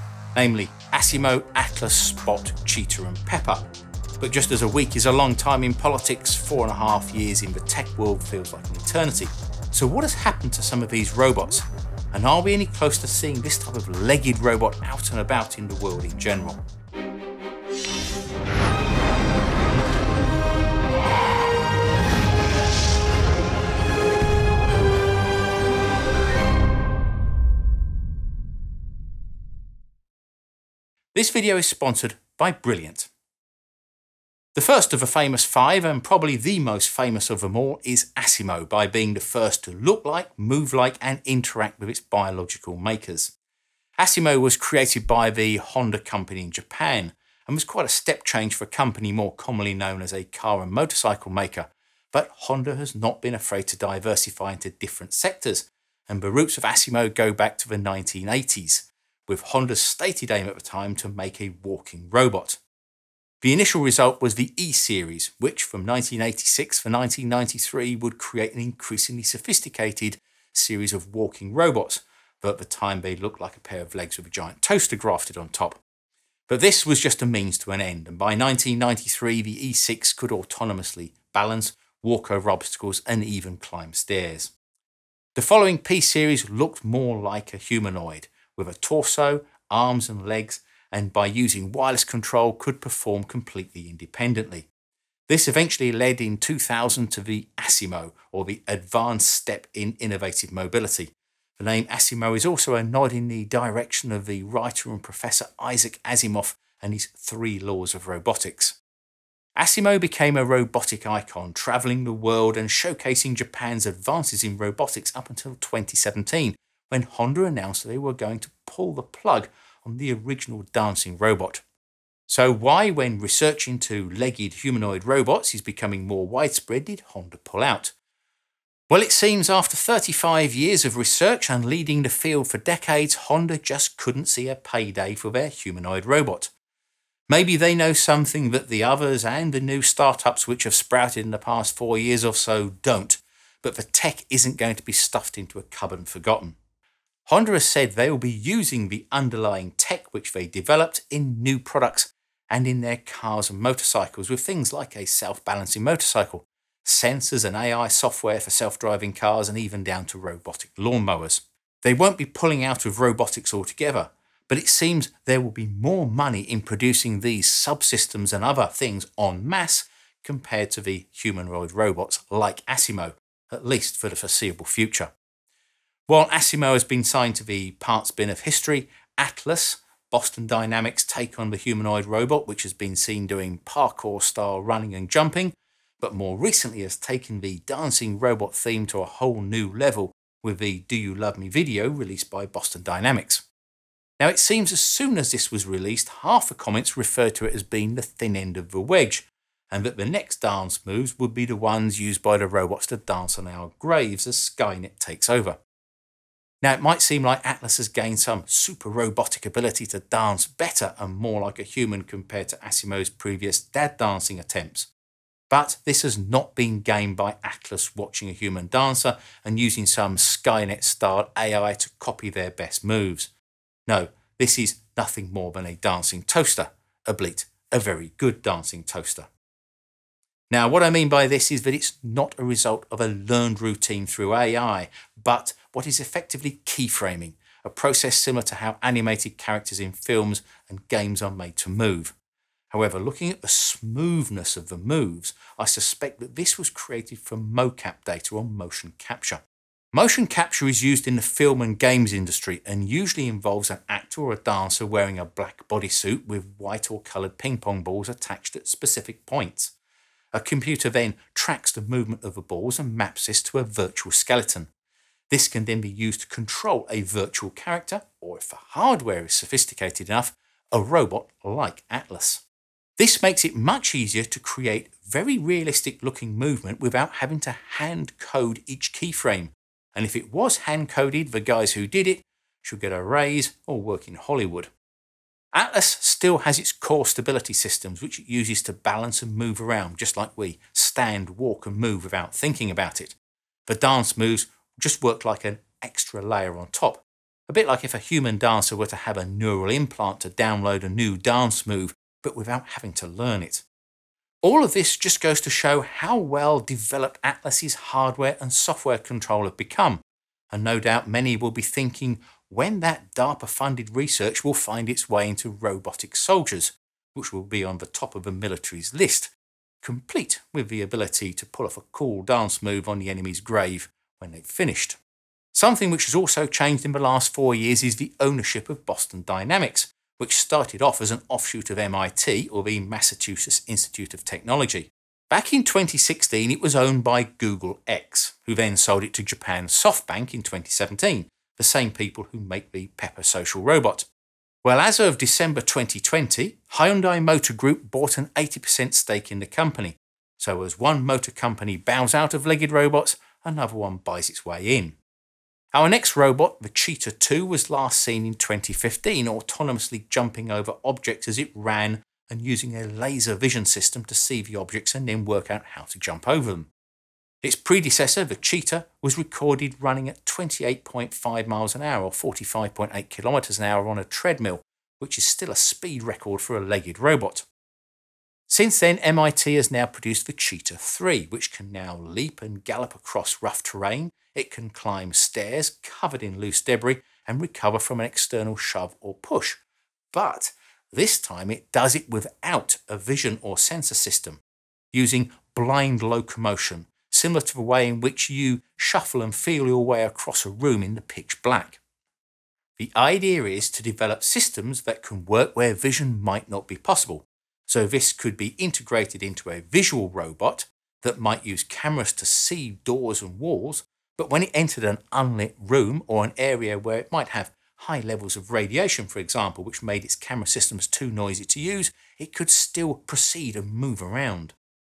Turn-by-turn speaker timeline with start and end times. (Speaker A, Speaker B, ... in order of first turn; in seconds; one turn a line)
Speaker A: 0.3-3.6
Speaker A: 4.2-16.6
Speaker A: 31.1-33.1
Speaker A: 34.5-43.3
Speaker A: 44.0-62.6
Speaker A: 63.4-75.8
Speaker A: 76.5-84.5
Speaker A: 85.3-94.7
Speaker A: 95.3-108.8
Speaker A: 109.6-121.6
Speaker A: 122.3-127.9
Speaker A: 128.9-136.5
Speaker A: 137.3-146.6
Speaker A: 147.3-175.1
Speaker A: 176.1-193.4
Speaker A: 194.2-205.6
Speaker A: 206.6-214.9
Speaker A: 215.5-223.3
Speaker A: 223.9-229.3
Speaker A: 230.5-242.1
Speaker A: 242.7-249.4
Speaker A: 249.9-259.7
Speaker A: 260.3-264.7
Speaker A: 265.3-272.4
Speaker A: 273.0-284.7
Speaker A: 285.5-293.1
Speaker A: 293.7-303.6
Speaker A: 304.4-310.0
Speaker A: 310.5-325.0
Speaker A: 325.5-344.1
Speaker A: 344.6-354.9
Speaker A: 355.7-366.7
Speaker A: 367.4-377.4
Speaker A: 378.5-389.6
Speaker A: 390.1-394.4
Speaker A: 394.9-401.8
Speaker A: 402.8-424.5